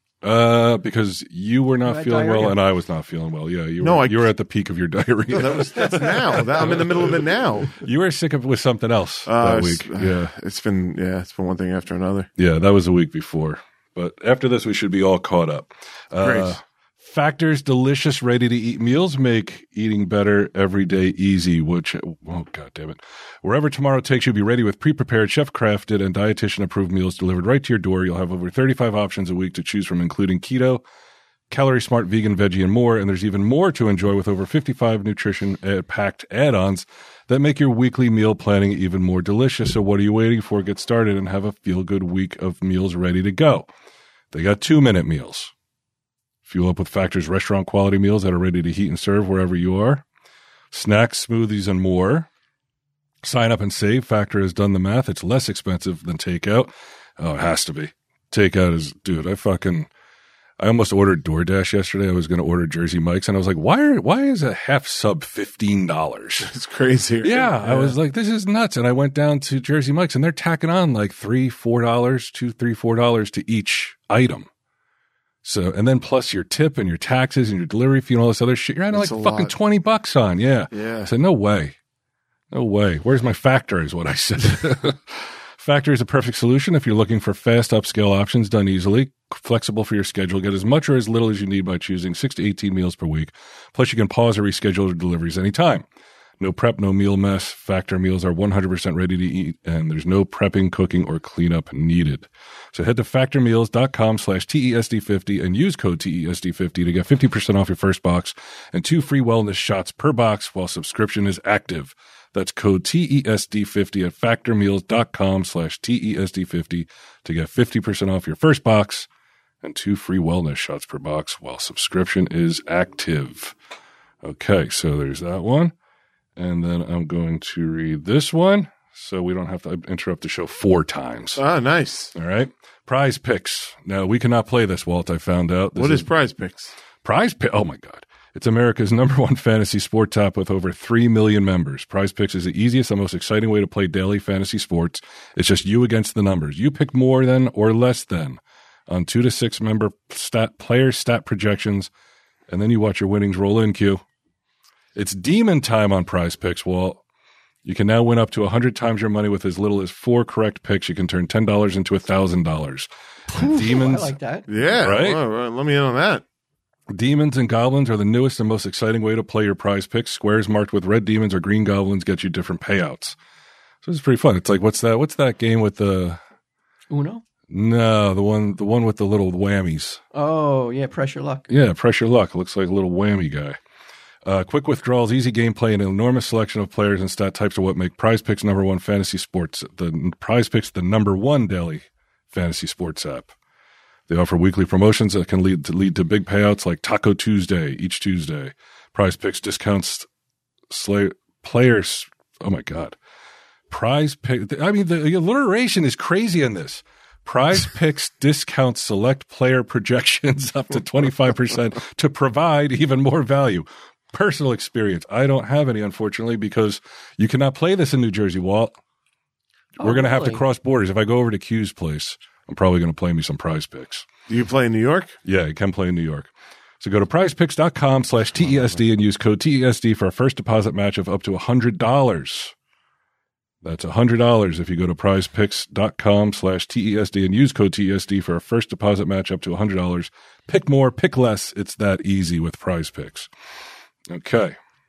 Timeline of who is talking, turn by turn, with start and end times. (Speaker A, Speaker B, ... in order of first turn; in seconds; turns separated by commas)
Speaker A: 0.2-7.0, Speaker B: 1.8-2.6, Speaker C: 3.8-4.3, Speaker C: 5.3-7.7, Speaker B: 5.8-6.1, Speaker A: 7.8-10.3, Speaker C: 9.2-12.3, Speaker A: 12.4-30.8, Speaker C: 16.2-16.6, Speaker A: 31.5-43.7, Speaker A: 44.3-45.5, Speaker A: 46.5-50.0, Speaker A: 50.7-52.3, Speaker A: 53.2-59.9, Speaker A: 60.6-66.5, Speaker C: 66.4-68.0, Speaker A: 67.2-74.5, Speaker A: 75.4-81.7, Speaker C: 78.9-79.5, Speaker C: 80.7-81.1, Speaker A: 82.5-95.8, Speaker A: 96.4-119.1, Speaker A: 119.6-123.5, Speaker A: 124.2-125.7, Speaker A: 126.3-131.4, Speaker C: 131.3-132.1, Speaker A: 132.1-136.1, Speaker C: 135.7-136.7, Speaker A: 137.0-151.9, Speaker A: 152.5-154.0, Speaker A: 154.9-157.0, Speaker A: 157.6-164.1, Speaker B: 163.3-164.5, Speaker C: 164.5-166.2, Speaker A: 164.7-165.2, Speaker A: 166.9-173.2, Speaker A: 173.8-176.2, Speaker B: 176.9-177.2, Speaker A: 177.5-180.0, Speaker B: 180.1-181.5, Speaker A: 181.5-183.6, Speaker A: 184.2-193.3, Speaker A: 194.1-200.1, Speaker A: 200.7-202.9, Speaker A: 203.7-218.7, Speaker B: 219.8-220.4, Speaker A: 219.8-224.1, Speaker C: 224.3-225.2, Speaker A: 225.2-226.3, Speaker A: 226.8-232.5, Speaker A: 233.6-243.3, Speaker A: 244.1-244.5